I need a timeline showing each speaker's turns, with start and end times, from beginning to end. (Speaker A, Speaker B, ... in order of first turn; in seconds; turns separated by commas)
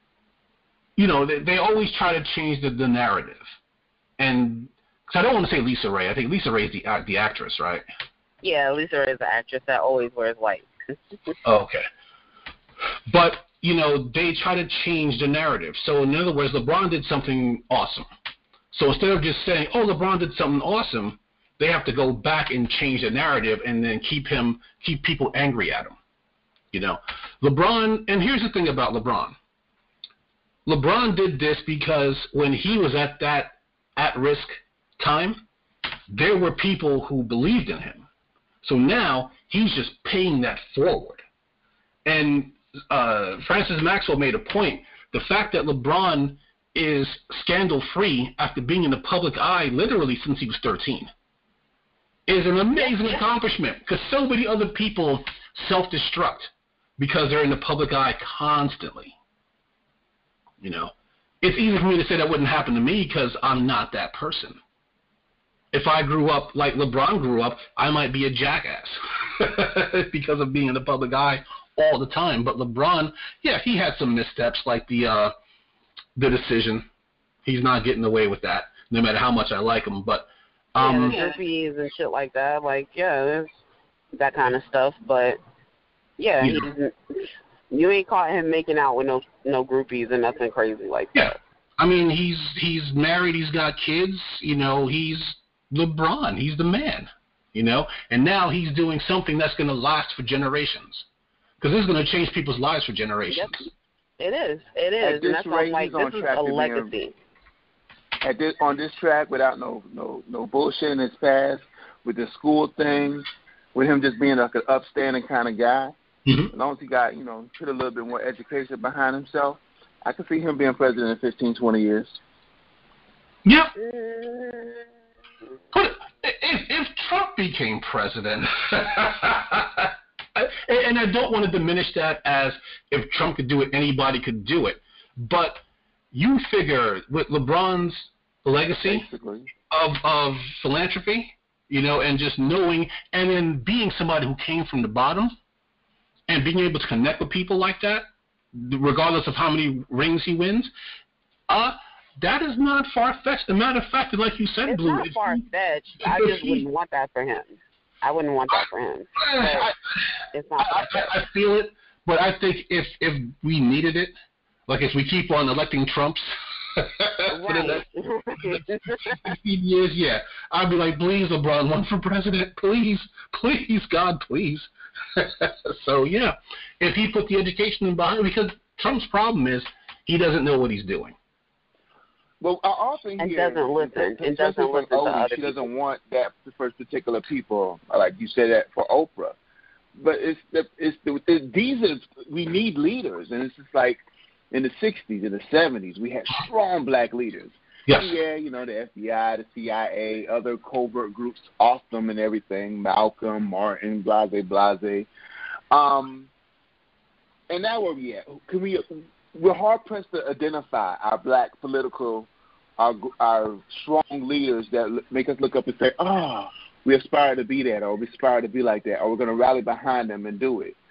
Speaker A: 1.0-3.5, Speaker A: 4.2-7.8, Speaker B: 8.4-11.0, Speaker A: 11.4-11.8, Speaker A: 13.1-18.1, Speaker A: 18.7-26.0, Speaker A: 26.7-29.4, Speaker A: 30.7-35.4, Speaker A: 36.1-38.1, Speaker A: 38.6-41.2, Speaker A: 42.1-51.1, Speaker A: 52.3-59.1, Speaker A: 60.6-64.6, Speaker A: 65.7-75.3, Speaker A: 76.2-76.9, Speaker A: 77.4-81.3, Speaker B: 80.8-83.5, Speaker B: 84.2-85.4, Speaker B: 86.2-87.0, Speaker A: 86.4-86.7, Speaker B: 87.7-91.3, Speaker A: 91.1-101.1, Speaker A: 101.6-103.7, Speaker B: 103.3-107.2, Speaker C: 105.0-106.9, Speaker C: 108.2-115.9, Speaker A: 116.3-116.5, Speaker C: 116.5-122.2, Speaker A: 123.5-123.7, Speaker B: 123.8-124.9, Speaker A: 125.7-139.1, Speaker C: 138.8-139.5, Speaker A: 139.7-145.3, Speaker A: 146.3-150.7, Speaker A: 151.5-155.4, Speaker B: 154.7-159.7, Speaker A: 156.0-156.7, Speaker A: 159.2-164.1, Speaker B: 160.3-161.1, Speaker A: 164.7-167.8, Speaker B: 167.3-169.2, Speaker A: 168.4-181.2, Speaker C: 182.4-189.4, Speaker B: 183.2-185.6, Speaker C: 190.0-194.0, Speaker C: 194.5-205.1, Speaker A: 197.9-198.1, Speaker C: 205.7-206.3, Speaker C: 207.5-220.8